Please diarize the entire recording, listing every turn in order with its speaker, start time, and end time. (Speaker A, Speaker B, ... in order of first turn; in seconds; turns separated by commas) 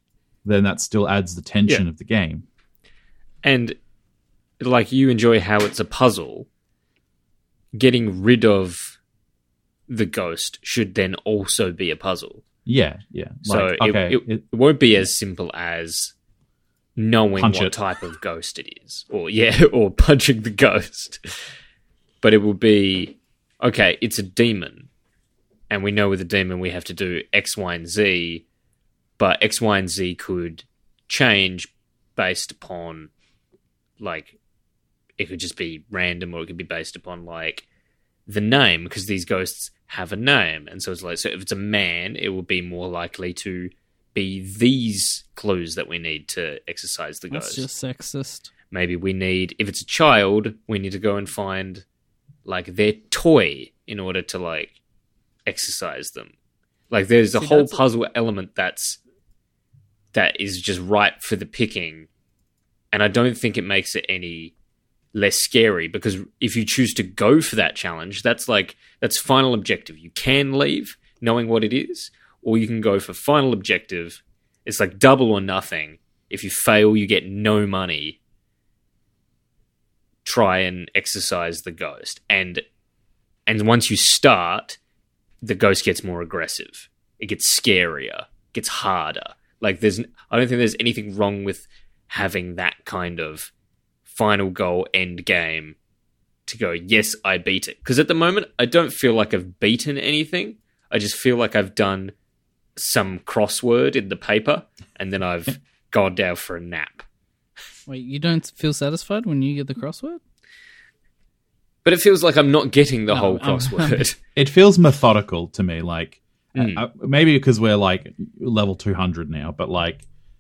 Speaker A: 0.4-2.5, Speaker B: 3.4-3.8, Speaker B: 4.6-6.5, Speaker B: 7.7-9.0, Speaker B: 9.9-12.4, Speaker A: 12.7-14.4, Speaker B: 13.4-16.1, Speaker B: 17.0-21.2, Speaker A: 17.4-17.7, Speaker B: 22.2-24.9, Speaker B: 25.7-28.4, Speaker B: 29.2-33.1, Speaker B: 34.0-34.3, Speaker B: 35.2-37.6, Speaker B: 38.3-47.7, Speaker C: 47.3-48.5, Speaker B: 48.7-51.8, Speaker B: 52.4-54.8, Speaker B: 55.5-56.3, Speaker B: 56.9-59.0, Speaker C: 57.3-57.8, Speaker B: 60.1-62.1, Speaker B: 62.9-64.5, Speaker B: 65.1-78.2, Speaker B: 80.2-82.6, Speaker B: 83.5-84.8, Speaker B: 85.4-93.5, Speaker B: 94.0-95.8, Speaker B: 96.5-102.1, Speaker B: 102.8-107.0, Speaker C: 107.9-110.2, Speaker B: 111.8-114.2, Speaker C: 113.1-114.0, Speaker A: 114.3-120.0, Speaker B: 116.5-116.8